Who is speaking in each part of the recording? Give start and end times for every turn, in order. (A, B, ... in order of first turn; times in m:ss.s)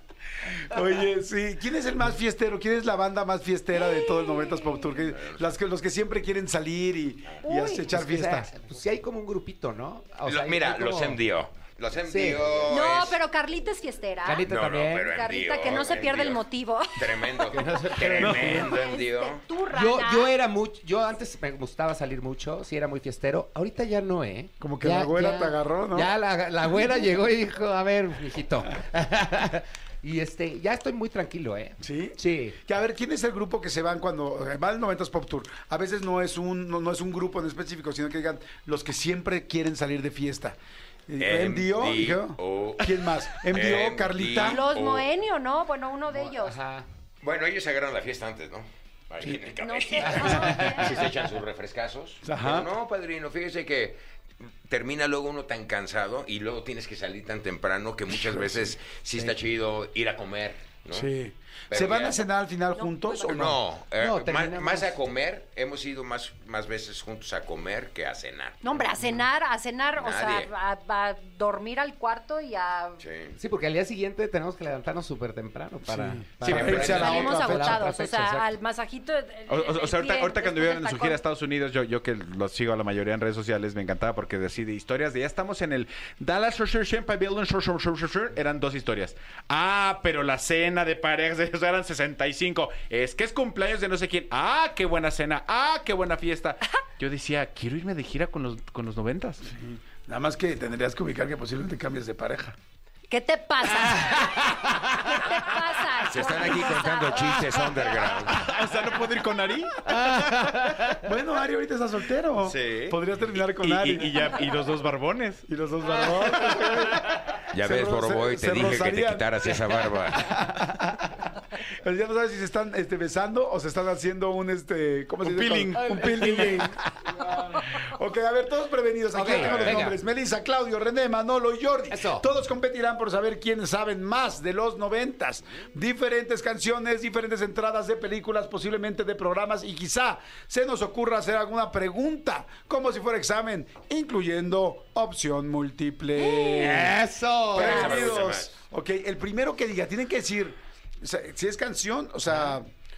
0:00.4-0:08.5 A
0:03.8-0:04.9 B
0:05.1-0:05.4 C
0:07.4-0:07.9 B
0:07.9-0:11.2 D
0:10.2-0:13.2 C
0:12.0-0:12.6 D
0:12.7-0:14.4 B
0:14.2-0:15.1 D
0:14.5-0:16.4 C
0:15.0-0:17.5 B
0:16.9-0:19.4 C
0:17.5-0:18.6 D
0:18.2-0:18.7 A
0:18.5-0:20.3 B
0:19.7-0:32.6 D
0:24.6-0:26.1 A
0:31.8-0:44.6 A
0:41.2-0:45.1 C
0:44.4-0:46.6 B
0:46.1-0:46.9 D
0:47.2-1:01.1 C
0:49.6-0:51.1 B
0:50.0-0:51.0 D
0:52.2-0:52.7 A
0:58.1-0:58.7 A
1:00.9-1:03.6 A
1:01.7-1:02.2 C
1:02.8-1:03.3 B
1:03.2-1:08.8 C
1:04.0-1:04.9 D
1:08.6-1:13.0 B
1:10.0-1:10.5 C
1:13.0-1:13.4 C
1:13.4-1:18.5 D
1:15.9-1:17.9 A
1:16.4-1:17.3 C
1:16.6-1:21.2 B
1:19.5-1:39.4 E
1:39.4-1:42.6 A
1:43.1-1:48.1 B
1:43.9-1:44.9 D
1:46.0-1:48.5 C
1:48.2-1:50.9 E
1:49.9-1:51.0 D
1:51.0-1:54.4 A
1:52.4-1:53.0 E
1:53.5-1:55.4 E
1:55.5-1:59.5 A
1:56.5-1:57.2 E
1:57.5-2:00.4 C
2:00.2-2:01.1 A
2:01.8-2:06.8 A
2:05.2-2:06.7 E
2:05.8-2:06.8 D
2:07.7-2:27.0 A
2:09.1-2:10.0 D
2:09.3-2:09.9 E
2:11.9-2:12.2 D
2:26.2-2:26.8 B
2:26.5-2:27.8 D
2:27.5-2:32.7 A
2:27.5-2:28.6 C
2:27.6-2:28.1 B